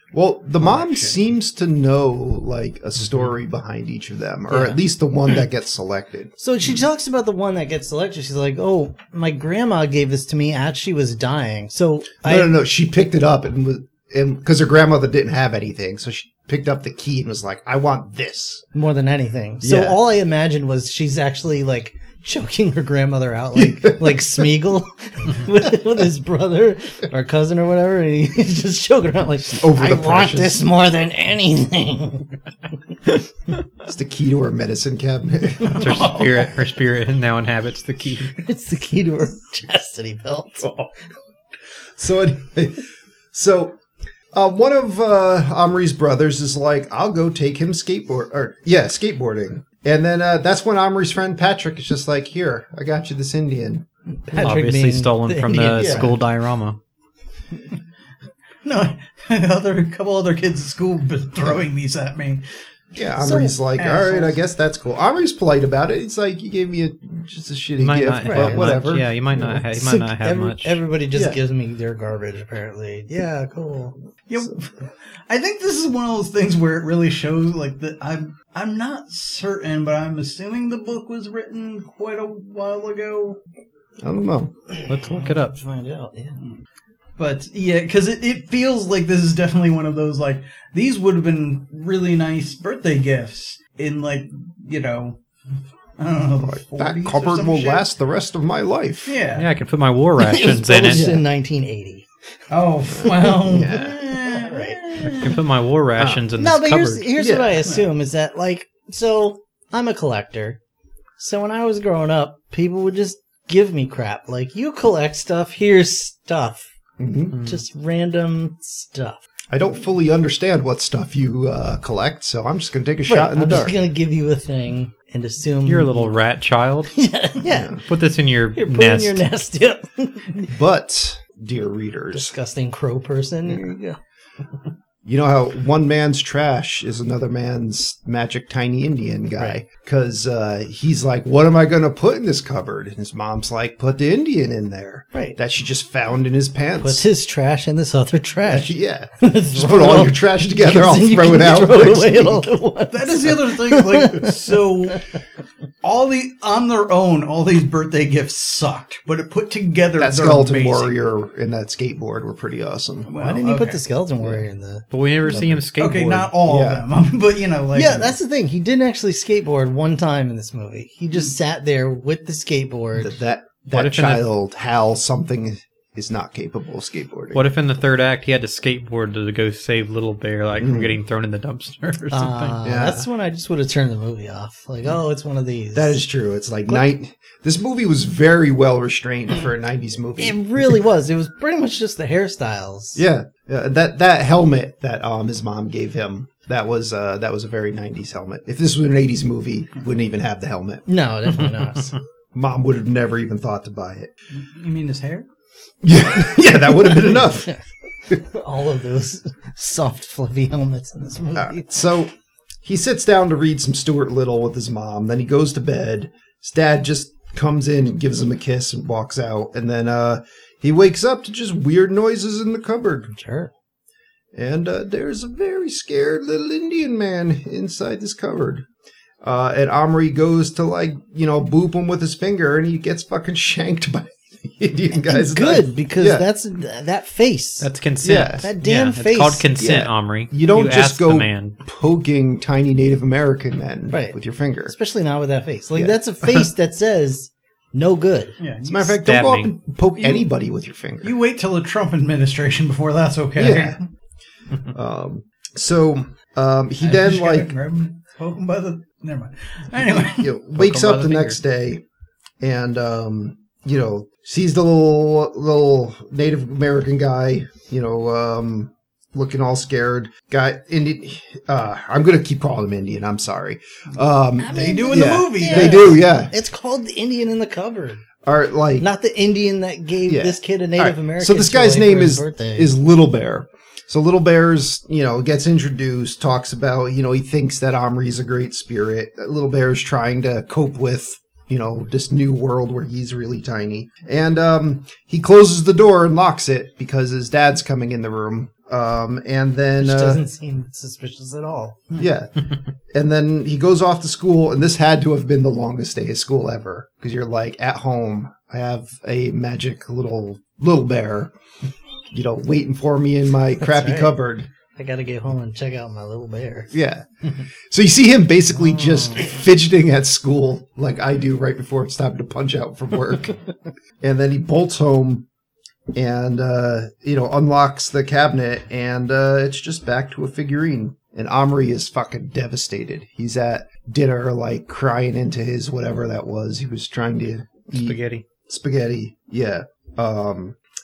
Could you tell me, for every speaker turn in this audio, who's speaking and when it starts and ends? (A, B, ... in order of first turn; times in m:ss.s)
0:00.1-0:06.4 A
0:00.6-0:01.2 B
0:04.5-0:04.8 C
0:06.4-0:12.6 C
0:12.2-0:18.7 A
0:18.7-0:32.3 C
0:19.6-0:20.0 A
0:23.6-0:24.3 A
0:29.6-0:30.6 A
0:33.8-0:36.0 A
0:35.6-0:38.4 D
0:35.8-0:36.4 B
0:38.4-0:40.7 C
0:40.6-0:40.9 A
0:42.0-0:43.8 A
0:44.3-0:53.8 A
0:54.1-0:56.2 C
0:54.3-0:56.8 D
0:55.8-0:56.1 A
0:58.6-1:02.4 B
1:02.9-1:09.6 A
1:03.2-1:03.6 C
1:03.8-1:04.4 B
1:07.8-1:10.8 D
1:08.2-1:14.0 C
1:11.1-1:11.4 A
1:14.3-1:23.4 B
1:24.0-1:24.5 A
1:24.8-1:26.4 C
1:24.9-1:25.6 D
1:27.2-1:35.2 B
1:36.0-1:37.9 B
1:36.4-1:39.2 A
1:39.1-1:39.5 B
1:39.3-1:41.1 D
1:40.2-1:42.1 C
1:40.9-1:41.2 A
1:42.5-1:45.3 B
1:43.0-1:44.0 A
1:43.6-1:45.4 C
1:45.0-1:47.1 D
1:46.0-1:46.2 A
1:46.4-1:50.6 C
1:47.2-1:47.6 A
1:47.6-1:47.9 B
1:51.2-1:56.7 C
1:57.0-1:57.4 A
1:57.3-1:57.6 D
1:57.4-1:59.2 C
1:59.5-2:03.8 A
2:03.1-2:06.2 C
2:05.6-2:07.0 D
2:06.9-2:07.8 C
2:07.4-2:07.8 A
2:07.8-2:09.2 D
2:08.5-2:10.5 C
2:10.5-2:12.3 A
2:12.1-2:14.0 C
2:15.0-2:27.0 A
2:25.1-2:25.4 C
2:26.8-2:35.0 C
2:28.5-2:32.5 A
2:32.9-2:35.1 B
2:35.8-2:41.0 B
2:40.0-2:43.1 A
2:43.1-2:43.8 B
2:43.2-2:45.4 C
2:44.9-2:46.3 D
2:45.3-2:45.6 A
2:45.8-2:48.2 B
2:46.4-2:46.9 A
2:47.7-2:53.2 C
2:53.0-2:57.5 A
2:53.7-2:54.3 D
2:57.3-3:02.6 D
3:00.6-3:01.0 A
3:02.1-3:06.0 C
3:02.6-3:03.1 A
3:05.7-3:10.4 A
3:10.2-3:13.0 C
3:13.0-3:20.9 A
3:20.9-3:22.0 C
3:22.3-3:24.1 A
3:24.3-3:25.3 B
3:25.8-3:27.5 A
3:26.2-3:31.7 C
3:31.4-3:32.1 A
3:32.6-3:43.2 A
3:43.2-3:43.5 C
3:44.3-3:48.6 A
3:49.2-3:56.3 A
3:55.0-3:57.7 C
3:57.6-4:01.6 D
3:58.0-3:58.5 A
3:58.4-3:59.5 C
3:59.6-4:04.7 A
4:03.9-4:08.4 C
4:08.4-4:09.0 B
4:08.6-4:11.1 A
4:09.0-4:09.5 D
4:10.0-4:10.3 B
4:11.0-4:13.8 B
4:13.4-4:13.8 A
4:14.7-4:17.6 A
4:16.8-4:20.3 B
4:19.8-4:21.8 A
4:20.5-4:21.4 D
4:22.4-4:36.3 A
4:34.4-4:38.0 C
4:34.4-4:36.0 B
4:38.2-4:38.9 A
4:38.8-4:42.8 C
4:40.1-5:00.2 A
4:59.8-5:01.9 C
5:02.0-5:02.4 A
5:02.9-5:11.3 A
5:12.1-5:14.5 A
5:13.6-5:14.2 C
5:14.8-5:16.7 C
5:16.7-5:17.1 A
5:17.7-5:23.4 A
5:24.0-5:25.3 A
5:25.9-5:40.6 A
5:37.7-5:38.2 D